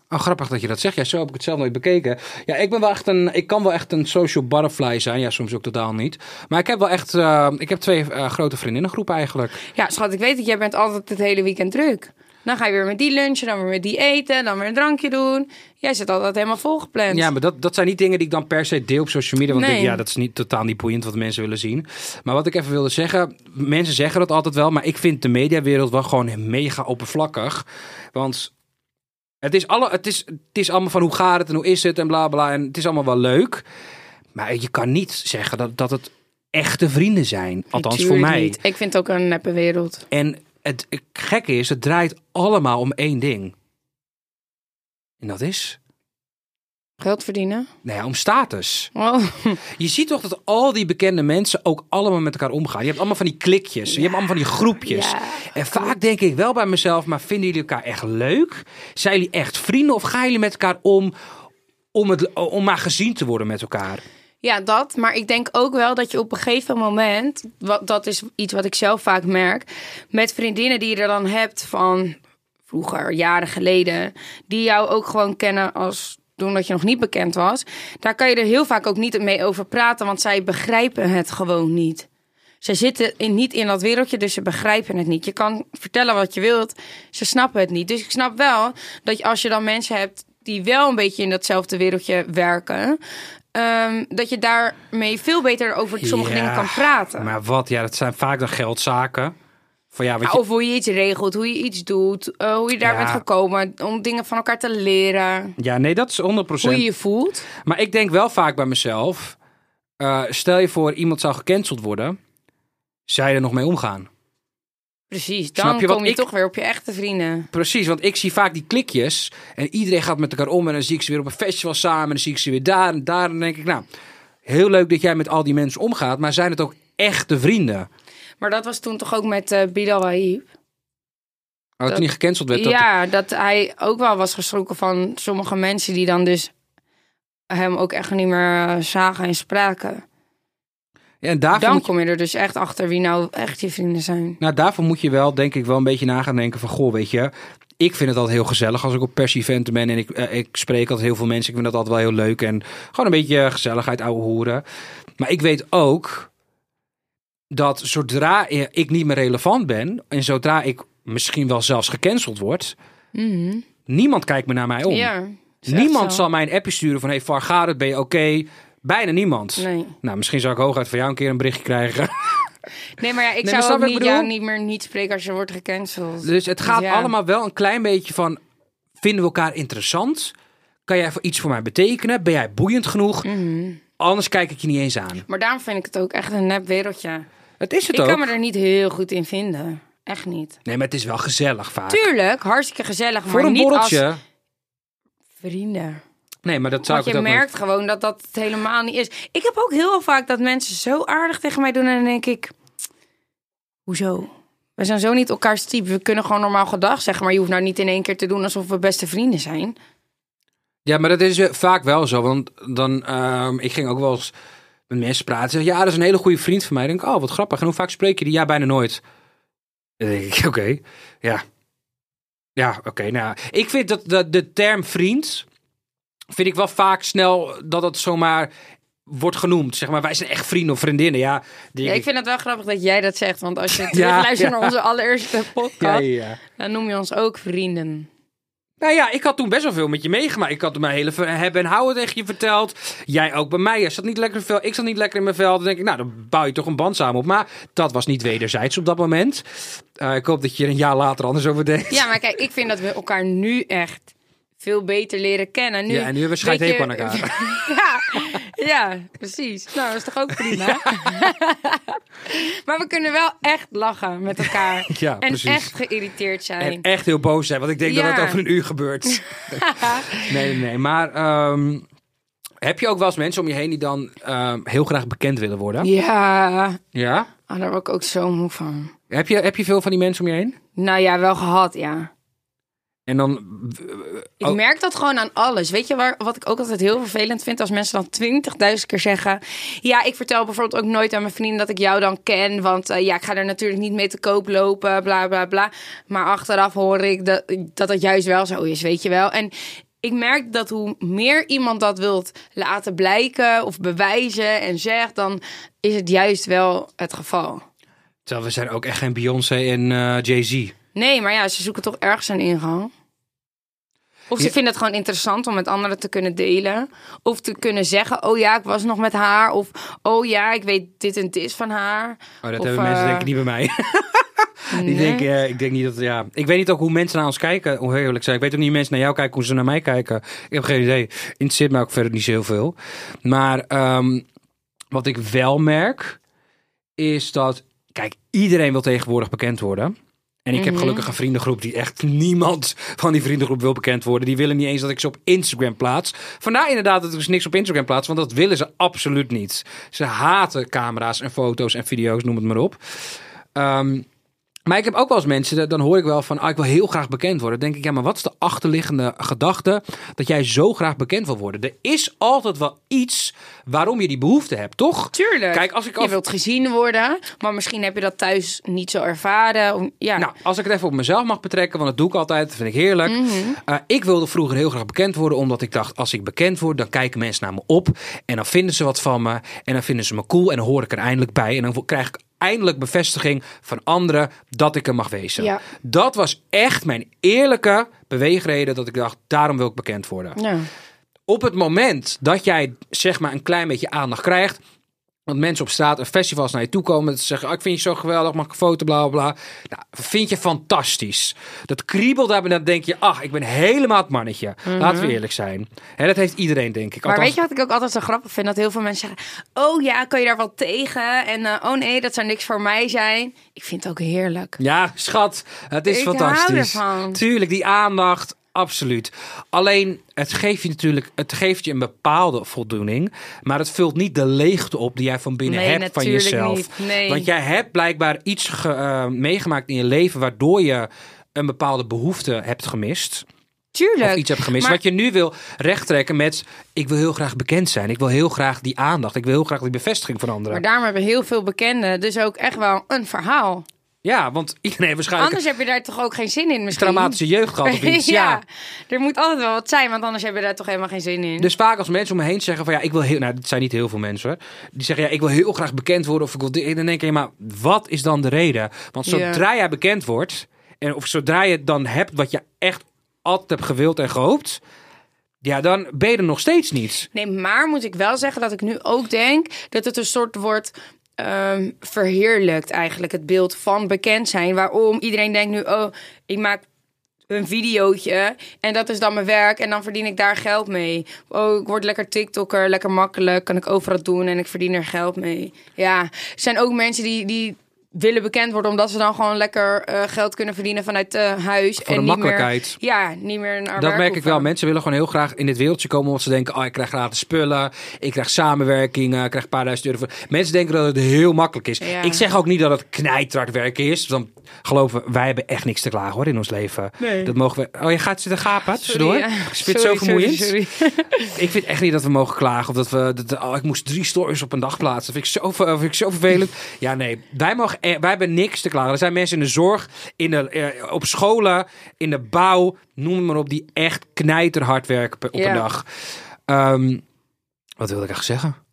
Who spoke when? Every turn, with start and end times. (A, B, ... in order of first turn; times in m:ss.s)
0:00.1-0:09.6 A
0:09.7-0:17.3 B
0:17.1-0:28.5 A
0:19.5-0:20.0 B
0:29.4-0:33.6 A
0:34.4-0:38.6 A
0:37.7-0:40.0 B
0:40.1-0:43.5 A
0:45.2-0:45.8 A
0:47.0-0:47.7 B
0:47.8-0:48.9 A
0:49.0-0:49.6 B
0:49.8-1:01.1 A
0:53.9-0:56.0 B
1:01.9-1:04.0 A
1:04.4-1:12.2 B
1:12.7-1:22.1 B
1:22.6-1:33.0 B
1:33.5-1:37.3 B
1:36.0-1:39.3 A
1:39.9-1:40.4 A
1:40.2-1:45.6 B
1:42.8-1:43.2 A
1:45.6-1:46.9 A
1:46.6-1:47.5 B
1:47.6-1:49.4 A
1:50.0-1:52.2 A
1:53.1-1:54.1 A
1:55.1-1:57.5 B
1:55.6-1:56.3 A
1:57.5-2:03.8 A
2:04.5-2:07.9 A
2:08.4-2:10.5 B
2:11.8-2:12.9 A
2:11.9-2:16.5 B
2:17.5-2:20.0 B
2:21.2-2:21.9 A
2:21.6-2:24.4 B
2:24.4-2:34.6 A
2:35.2-2:36.3 A
2:37.5-2:42.8 A
2:43.2-2:43.7 B
2:43.9-2:45.1 A
2:44.9-2:46.2 B
2:45.7-2:52.4 A
2:49.6-2:50.0 B
2:53.0-2:57.1 B
2:53.4-2:54.3 A
2:56.2-2:58.4 A
2:59.0-3:00.3 A
3:00.9-3:03.3 A
3:03.2-3:03.8 B
3:04.0-3:05.3 A
3:05.3-3:07.3 B
3:07.6-3:08.3 A
3:07.9-3:10.6 B
3:10.7-3:12.1 A
3:11.9-3:14.0 B
3:13.3-3:14.2 A
3:15.4-3:16.0 B
3:16.4-3:17.5 A
3:16.9-3:22.6 B
3:23.9-3:29.8 B
3:30.8-3:34.3 A
3:34.9-3:39.0 A
3:40.0-3:41.4 A
3:42.6-3:45.5 A
3:46.3-3:48.5 A
3:49.1-3:52.1 A
3:51.8-3:58.1 B
3:53.7-3:54.8 A
3:55.8-3:56.4 A
3:58.8-4:12.1 A
4:11.9-4:26.8 B
4:15.9-4:18.4 A
4:20.4-4:21.3 A
4:24.9-4:25.7 A
4:26.6-4:31.9 A
4:27.8-4:28.4 B
4:29.1-4:30.3 B
4:32.6-4:35.9 A
4:35.8-4:36.8 B
4:36.9-4:37.3 A
4:37.5-4:38.9 B
4:39.1-4:40.6 A
4:40.8-4:42.1 B
4:43.1-4:44.6 A
4:44.4-5:07.6 B
5:08.3-5:10.7 A
5:10.9-5:12.9 B
5:14.3-5:23.3 B
5:22.4-5:34.2 A
5:24.7-5:25.3 B
5:34.9-5:36.2 A
5:37.0-5:39.9 A
5:40.4-5:52.8 A
5:40.5-5:41.1 B
5:53.6-5:54.1 A
5:54.7-6:06.2 A
6:05.1-6:10.3 B
6:10.2-6:30.4 A
6:13.1-6:13.6 B
6:30.4-6:30.7 B
6:31.3-6:34.6 A
6:35.3-6:47.4 A
6:44.7-6:45.2 B
6:47.0-6:54.6 B
6:54.6-7:13.2 A
6:55.9-6:57.2 B
7:05.5-7:07.3 B
7:13.8-7:14.8 B
7:14.0-7:20.6 A
7:20.5-7:23.7 B
7:24.0-7:25.4 A
7:25.2-7:31.5 B
7:26.7-7:28.4 A
7:31.4-7:44.6 A
7:39.1-7:39.4 B
7:45.4-7:47.1 A
7:47.1-7:56.6 B
7:57.3-8:14.5 B
8:11.8-8:12.8 A
8:13.8-8:30.6 A
8:21.8-8:22.3 B
8:27.0-8:27.3 B
8:28.8-8:31.4 B
8:31.4-8:45.8 A
8:45.4-8:45.6 B
8:46.5-8:47.0 A
8:47.8-8:48.6 A